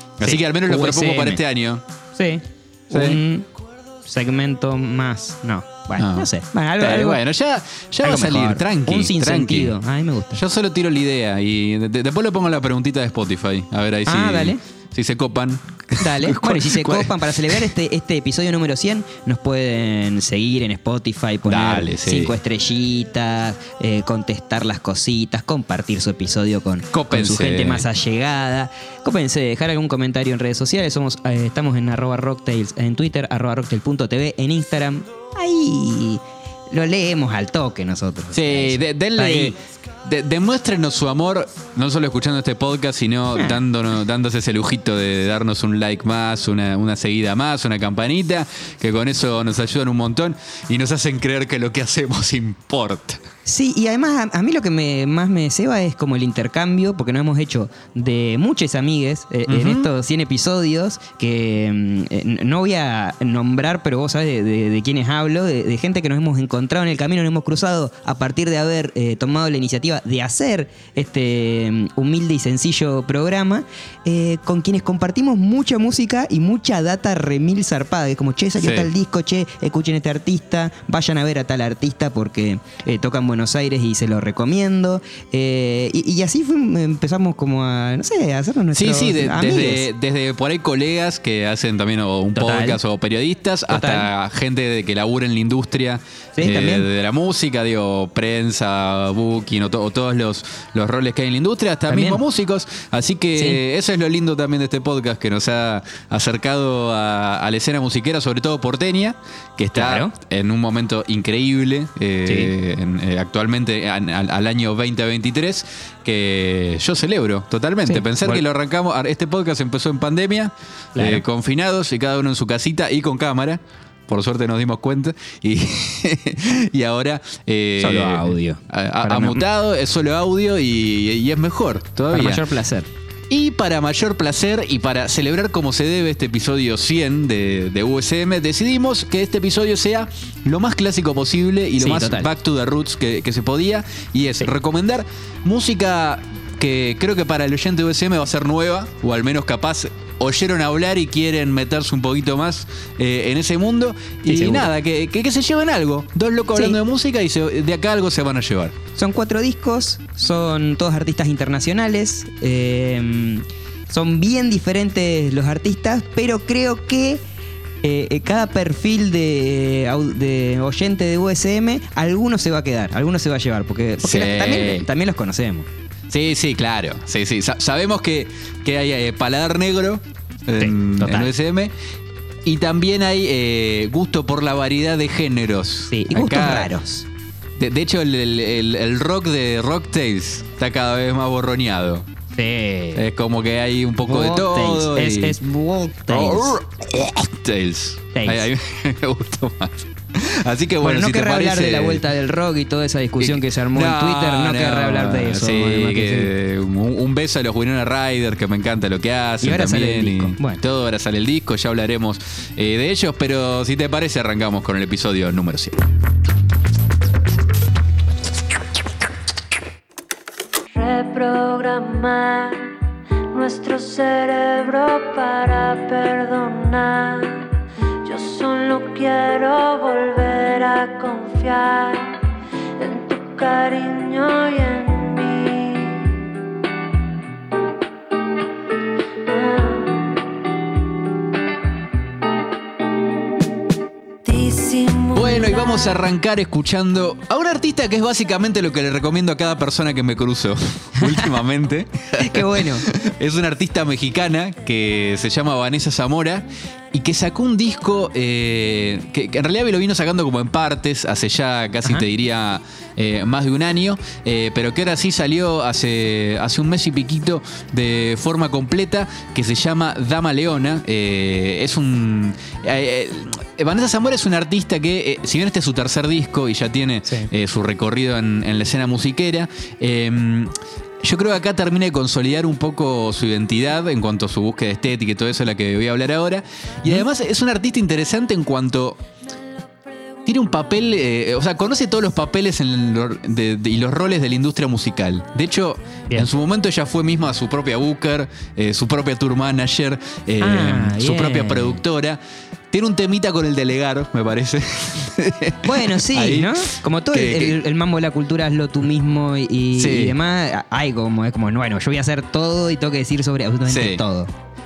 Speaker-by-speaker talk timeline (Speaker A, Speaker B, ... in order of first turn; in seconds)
Speaker A: 0.2-1.4, 2.2-3.5, 4.1-7.2, 8.0-10.4, 14.1-14.6, 16.0-39.5, 53.5-89.9, 92.3-92.8, 93.7-94.1, 96.4-96.9, 101.9-102.2, 109.7-110.1, 112.3-112.5, 117.9-118.4, 121.0-121.2, 127.8-129.4, 132.1-132.9, 141.8-142.3, 154.3-154.7, 159.0-167.2, 167.8-175.7, 180.6-181.3, 185.9-187.1, 192.3-193.1, 194.1-196.6, 198.1-198.5, 200.8-206.3, 209.4-210.6, 252.2-252.9, 300.4-301.8, 305.6-314.3
Speaker B: 0.2-1.8, 2.9-3.2, 6.0-9.7, 10.3-17.6, 21.5-22.3, 26.9-27.9, 38.3-53.2, 59.5-59.9, 78.6-78.9, 88.7-132.4, 133.3-158.8, 174.0-174.9, 176.1-181.7, 182.4-186.7, 187.6-192.1, 193.0-195.4, 196.1-202.0, 203.2-215.8, 245.1-289.0, 290.3-302.2, 302.7-307.6, 309.8-310.2, 313.7-314.0
Speaker C: 220.7-222.7, 223.3-227.5, 228.0-232.2, 232.8-236.2, 239.3-240.1, 244.2-245.9